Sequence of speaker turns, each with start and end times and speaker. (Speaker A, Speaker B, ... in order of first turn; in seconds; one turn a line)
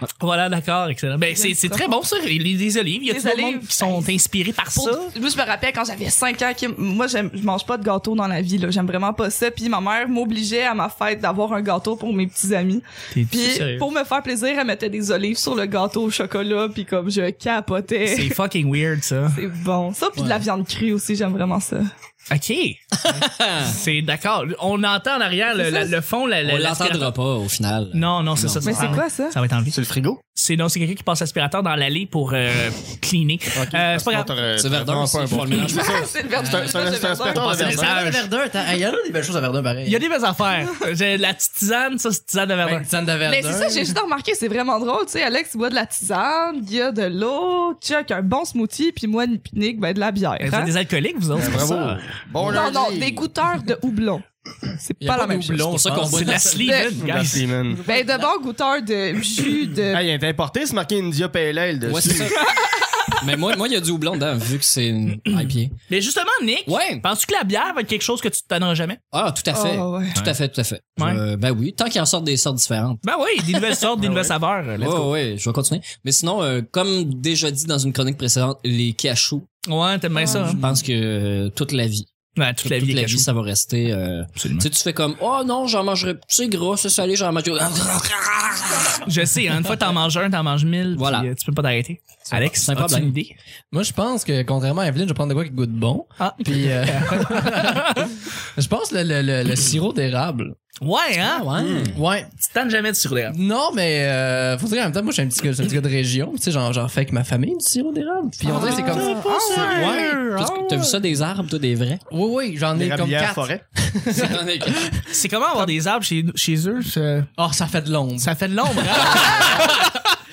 Speaker A: 0.2-5.1
Speaker B: 1.3-1.9
Speaker B: 3.1-4.1
Speaker B: 4.7-18.4
Speaker A: 13.1-13.8
Speaker A: 18.1-19.4
Speaker B: 19.3-21.9
Speaker C: 20.1-20.4
Speaker A: 22.3-22.8
Speaker D: 23.1-23.8
Speaker A: 23.6-27.1
Speaker B: 25.6-25.9
Speaker D: 26.4-29.0
Speaker A: 27.9-29.8
Speaker B: 28.6-29.4
Speaker E: 29.7-30.2
Speaker A: 30.3-34.3
Speaker E: 33.5-38.0
Speaker D: 34.5-36.1
Speaker B: 35.5-38.0
Speaker A: 37.3-38.3
Speaker C: 37.4-40.0
Speaker A: 39.8-42.9
Speaker C: 42.6-43.9
Speaker B: 43.2-50.7
Speaker A: 50.4-52.1
Speaker E: 51.3-53.3
Speaker B: 52.4-55.9
Speaker C: 55.0-56.6
Speaker D: 55.7-56.6
Speaker A: 55.9-57.5
Speaker B: 56.4-57.1
Speaker E: 57.0-57.8
Speaker B: 57.8-60.0
Speaker E: 59.9-62.4
Speaker D: 61.8-62.5
Speaker B: 62.4-63.1
Speaker D: 63.2-65.7
Speaker A: 65.3-69.0
Speaker D: 66.7-67.0
Speaker D: 69.1-73.0
Speaker B: 69.5-70.2
Speaker A: 73.0-75.1
Speaker E: 74.0-74.3
Speaker D: 74.8-79.5
Speaker A: 79.7-80.6
Speaker B: 80.1-80.6
Speaker D: 80.3-82.1
Speaker A: 82.4-83.3
Speaker D: 82.6-89.1
Speaker A: 84.4-84.7
Speaker A: 89.0-93.3
Speaker D: 90.9-91.3
Speaker D: 92.3-93.1
Speaker C: 93.7-100.5
Speaker A: 96.2-98.2
Speaker A: 100.8-101.5
Speaker D: 101.2-102.0
Speaker E: 101.6-101.9
Speaker C: 101.9-102.3
Speaker A: 102.3-103.3
Speaker C: 103.3-110.5
Speaker A: 108.5-110.2
Speaker B: 108.5-110.2
Speaker D: 108.5-112.0
Speaker C: 112.1-115.1
Speaker E: 112.7-113.6
Speaker D: 114.1-115.0
Speaker A: 115.1-117.3
Speaker C: 117.4-118.3
Speaker A: 118.2-119.9
Speaker C: 118.9-119.7